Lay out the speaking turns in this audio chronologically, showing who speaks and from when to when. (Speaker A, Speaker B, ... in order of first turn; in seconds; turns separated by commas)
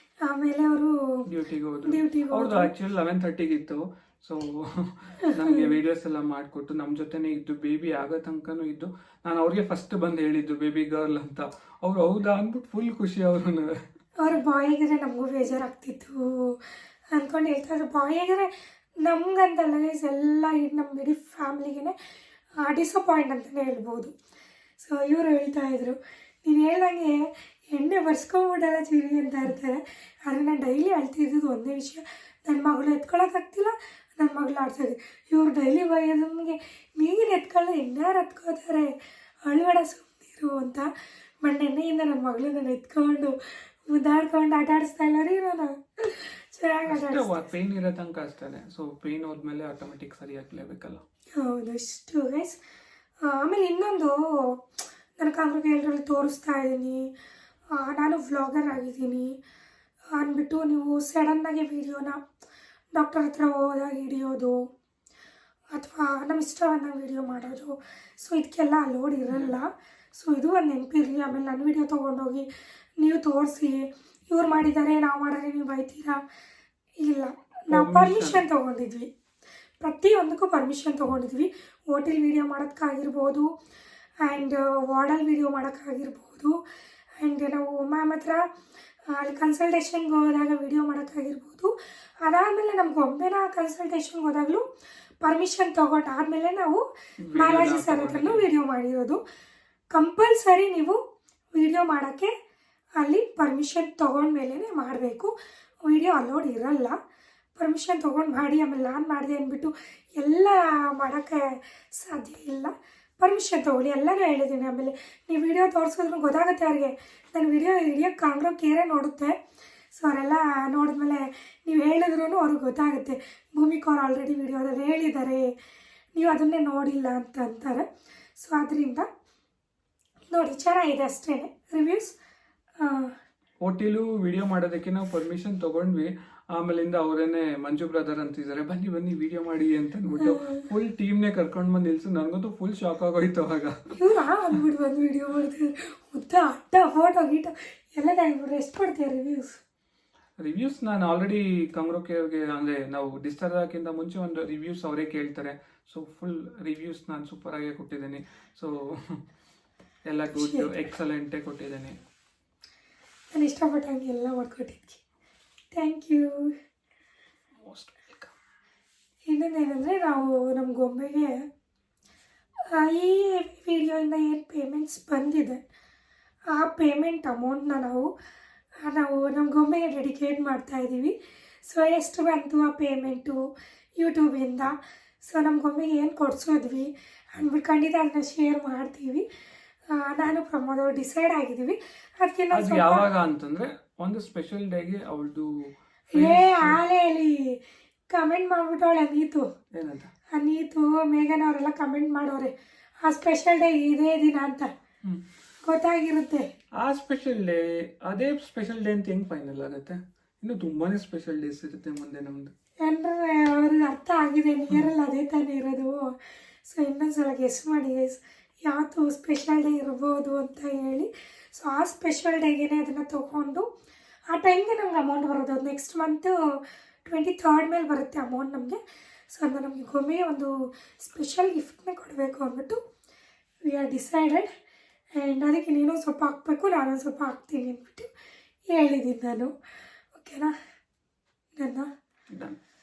Speaker A: 0.2-1.3, Speaker B: 1.3-13.8, Speaker A: 1.8-2.7, Speaker A: 5.2-5.7, Speaker A: 14.2-16.6, Speaker A: 17.1-18.5, Speaker A: 19.0-21.9, Speaker A: 22.6-24.1, Speaker A: 24.8-40.9, Speaker A: 41.4-43.4, Speaker A: 43.9-47.4, Speaker B: 46.9-51.0, Speaker A: 51.4-52.6, Speaker A: 53.2-54.6, Speaker A: 55.2-57.1, Speaker A: 57.7-59.4, Speaker A: 60.1-62.2, Speaker A: 62.9-64.7, Speaker A: 65.7-72.5, Speaker B: 69.3-69.5, Speaker A: 73.0-76.2, Speaker A: 77.0-79.1, Speaker B: 77.7-78.4, Speaker A: 79.8-83.5, Speaker A: 84.2-86.6, Speaker A: 87.2-88.5, Speaker A: 89.1-94.6, Speaker A: 95.2-99.2, Speaker B: 97.2-98.5, Speaker A: 99.9-101.0, Speaker A: 101.5-102.3, Speaker A: 103.0-105.3, Speaker A: 105.8-107.0, Speaker A: 107.5-119.3, Speaker A: 119.9-125.5, Speaker A: 126.1-127.8, Speaker A: 128.4-129.1, Speaker A: 130.3-132.1, Speaker A: 132.8-133.1, Speaker B: 133.6-143.9, Speaker A: 140.2-140.6, Speaker A: 143.9-149.6, Speaker B: 150.4-159.2, Speaker B: 160.1-162.0, Speaker A: 160.3-160.7, Speaker A: 163.3-165.0, Speaker A: 165.7-166.5, Speaker B: 167.6-168.3, Speaker A: 169.3-171.5, Speaker A: 172.7-175.6, Speaker A: 176.5-178.1, Speaker A: 178.8-181.1, Speaker A: 181.6-183.4, Speaker A: 184.0-189.2, Speaker A: 189.9-193.1, Speaker B: 192.5-196.8, Speaker A: 196.1-199.5, Speaker B: 199.7-200.1, Speaker A: 200.3-204.7, Speaker A: 205.6-206.5, Speaker B: 206.8-212.5, Speaker A: 212.8-223.7, Speaker A: 224.3-226.3, Speaker A: 227.1-228.8, Speaker A: 229.3-232.8, Speaker A: 233.7-234.5, Speaker A: 235.2-238.1, Speaker A: 238.7-239.5, Speaker A: 240.1-240.5, Speaker A: 241.6-241.9, Speaker B: 242.3-242.6